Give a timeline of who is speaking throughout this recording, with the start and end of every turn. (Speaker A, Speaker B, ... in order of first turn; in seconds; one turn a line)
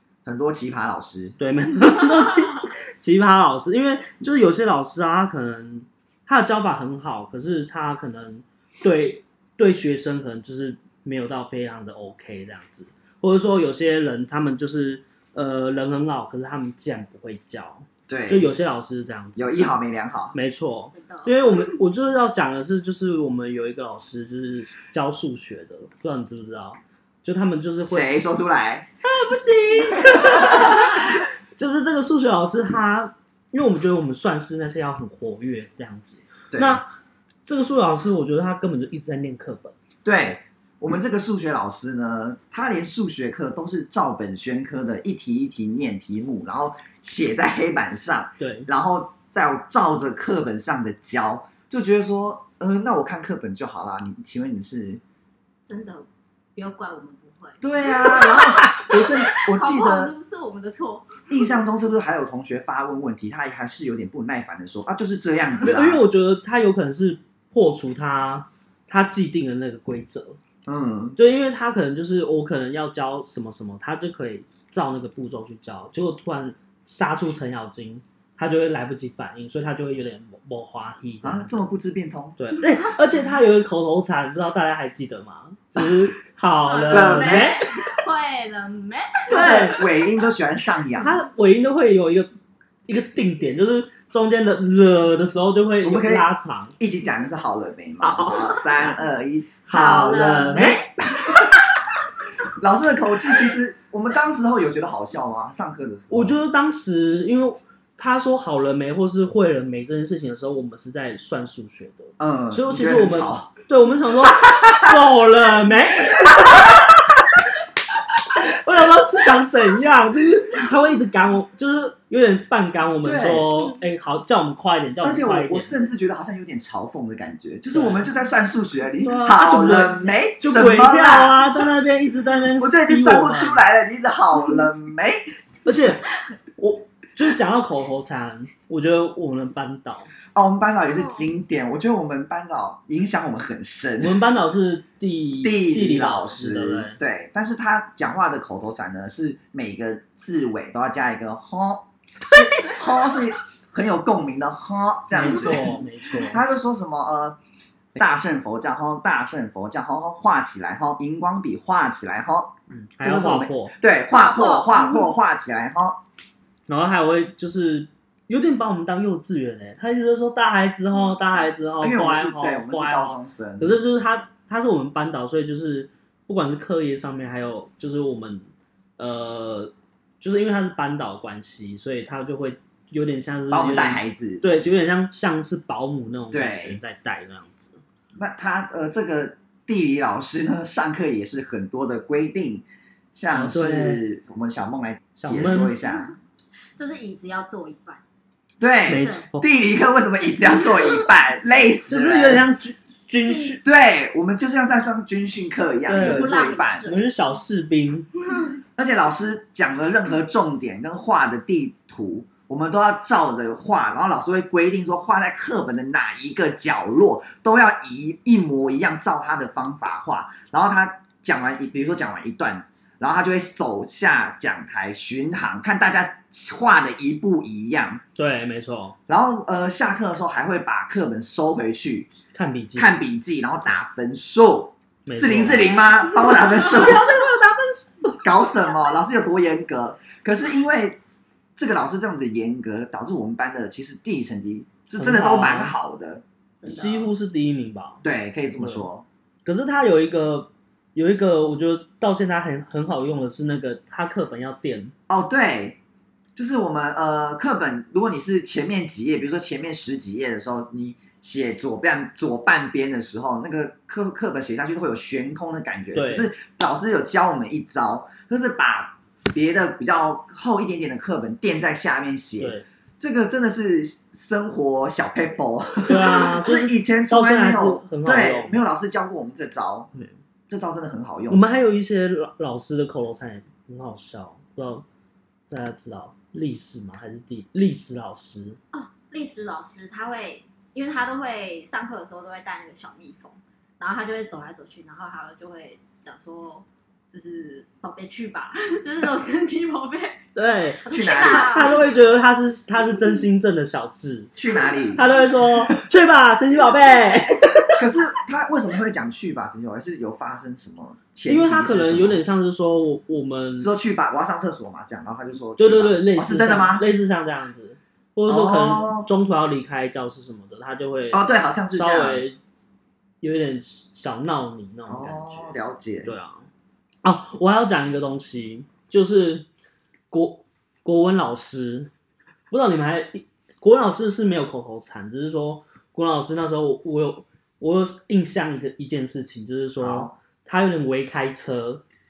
Speaker A: 0.2-1.4
Speaker B: 1.4-19.8
Speaker A: 18.1-18.5
Speaker A: 19.4-20.3
Speaker B: 20.3-28.1
Speaker C: 20.9-21.4
Speaker A: 27.9-28.9
Speaker B: 29.1-36.9
Speaker C: 29.9-30.5
Speaker A: 36.5-36.8
Speaker B: 37.5-39.7
Speaker A: 40.0-55.0
Speaker B: 48.4-48.7
Speaker C: 55.7-61.6
Speaker A: 57.6-60.1
Speaker A: 61.3-66.0
Speaker B: 65.6-70.4
Speaker A: 70.7-71.2
Speaker B: 71.2-81.6
Speaker A: 81.2-82.4
Speaker B: 82.4-87.7
Speaker C: 86.6-90.0
Speaker A: 86.9-87.6
Speaker A: 89.3-91.2
Speaker B: 89.3-89.8
Speaker B: 91.0-92.3
Speaker B: 92.8-96.7
Speaker A: 95.8-96.3
Speaker A: 96.8-101.6
Speaker B: 98.0-98.9
Speaker B: 99.7-100.8
Speaker C: 99.7-100.7
Speaker A: 102.6-106.4
Speaker B: 106.1-117.2
Speaker A: 112.2-113.5
Speaker B: 118.3-125.8
Speaker A: 123.0-123.5
Speaker A: 125.0-131.6
Speaker B: 127.7-128.1
Speaker B: 129.0-133.7
Speaker A: 132.6-136.0
Speaker B: 135.6-136.0
Speaker B: 136.6-140.1
Speaker A: 140.3-144.2
Speaker C: 140.9-141.3
Speaker B: 144.0-147.0
Speaker A: 145.4-157.4
Speaker B: 155.1-156.4
Speaker A: 157.9-166.0
Speaker B: 162.7-163.7
Speaker C: 164.1-165.1
Speaker B: 166.7-178.5
Speaker A: 171.8-173.8
Speaker B: 179.0-187.8
Speaker A: 183.5-184.5
Speaker A: 186.3-186.8
Speaker A: 188.2-196.1
Speaker B: 193.3-194.0
Speaker B: 195.2-195.7
Speaker C: 195.4-196.2
Speaker C: 196.8-198.0
Speaker A: 198.6-202.5
Speaker B: 198.8-199.5
Speaker C: 199.0-199.3
Speaker C: 200.6-201.0
Speaker B: 201.9-203.6
Speaker C: 203.3-203.5
Speaker A: 203.6-206.9
Speaker B: 205.9-208.1
Speaker C: 205.9-207.1
Speaker A: 208.8-228.0
Speaker B: 228.2-228.9
Speaker A: 229.1-232.1
Speaker B: 232.3-232.9
Speaker A: 232.8-237.1
Speaker B: 235.1-235.8
Speaker B: 236.4-238.2
Speaker A: 238.2-241.0
Speaker A: 241.6-246.2
Speaker B: 245.0-245.7
Speaker C: 246.6-247.1
Speaker B: 246.7-248.0
Speaker A: 248.0-249.1
Speaker B: 248.6-248.9
Speaker B: 249.4-254.9
Speaker A: 255.1-255.8
Speaker A: 256.4-279.9
Speaker B: 265.9-266.3
Speaker B: 272.4-272.6
Speaker B: 275.9-278.6
Speaker A: 280.5-281.5
Speaker B: 281.3-284.8
Speaker B: 285.5-288.6
Speaker C: 288.7-300.2
Speaker B: 300.3-304.3
Speaker C: 300.8-302.0
Speaker A: 300.9-301.6
Speaker A: 304.3-305.0
Speaker C: 304.7-305.0
Speaker B: 304.9-307.8
Speaker A: 307.8-312.2
Speaker B: 311.2-313.7
Speaker A: 313.6-316.8
Speaker B: 315.6-322.4
Speaker A: 318.2-319.1
Speaker A: 321.1-322.2
Speaker B: 323.2-326.5
Speaker A: 324.9-326.1
Speaker B: 327.0-329.5
Speaker B: 330.1-331.9
Speaker B: 332.5-341.8
Speaker A: 339.8-340.1